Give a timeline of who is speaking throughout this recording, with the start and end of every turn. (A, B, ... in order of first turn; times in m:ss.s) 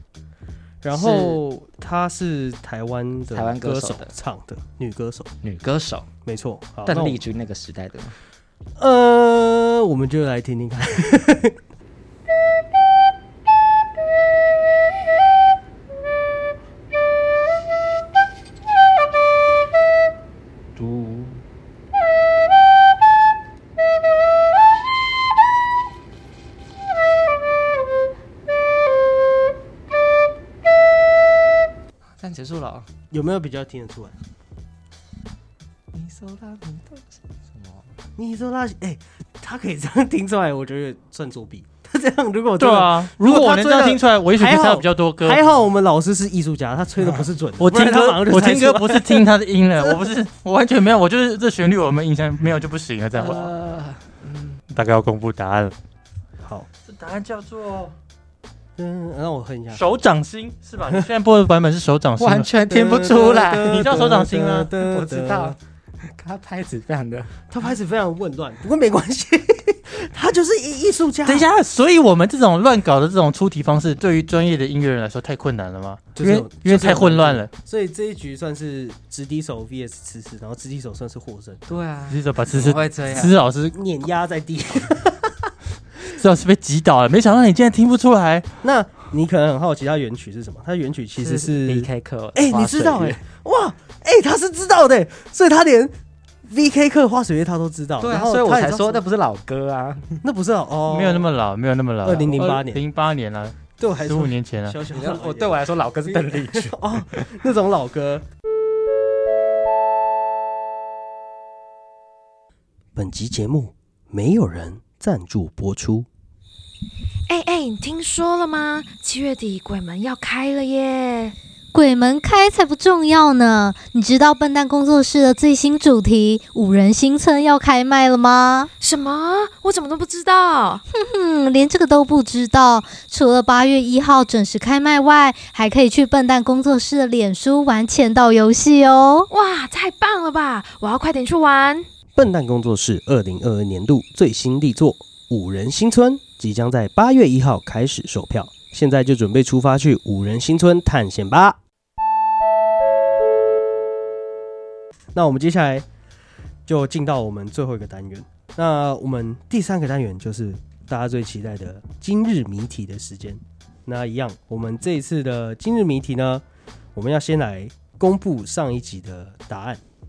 0:00.8-0:05.3 A
0:00.9-0:01.4 B
0:03.3-0:04.1 B
0:05.4-0:06.1 B
0:06.2-0:07.2 A
0:06.8-0:08.2 B
0:08.8-0:11.6 A
0:32.2-0:32.9 B
0:33.1-0:34.2 A
0:35.9-0:37.9 B
0:38.2-0:49.2 A
0:42.6-0:45.4 C
0:47.6-0:53.5 C
0:53.2-0:54.6 B
0:54.7-0:55.8 C
0:56.4-0:56.7 A
0:56.9-0:57.9 C
0:58.8-0:59.8 A
0:59.7-1:02.5 C
1:02.2-1:04.2 B
1:02.7-1:05.6 A
1:03.8-1:04.7 C
1:04.8-1:07.3 B
1:07.5-1:11.5 A
1:11.2-1:17.5 C
1:16.2-1:21.7 A
1:21.7-1:23.3 B
1:22.1-1:23.8 C
1:23.7-1:25.5 A
1:26.1-1:28.5 C
1:28.6-1:35.9 A
1:31.2-1:33.2 B
1:36.5-1:39.0 A
1:38.0-1:40.2 B
1:40.2-1:41.3 A
1:40.9-1:44.8 C
1:42.0-1:42.8 A
1:43.8-1:48.2 A
1:44.9-1:47.3 B
1:53.0-1:56.1 A
1:57.3-2:01.4 D
2:01.7-2:08.7 E
2:08.8-2:10.8 D
2:10.9-2:19.3 E
2:19.3-2:21.9 D
2:22.2-2:31.6 A
2:35.1-2:35.8 A
2:36.7-2:46.4 A
2:47.0-2:49.8 A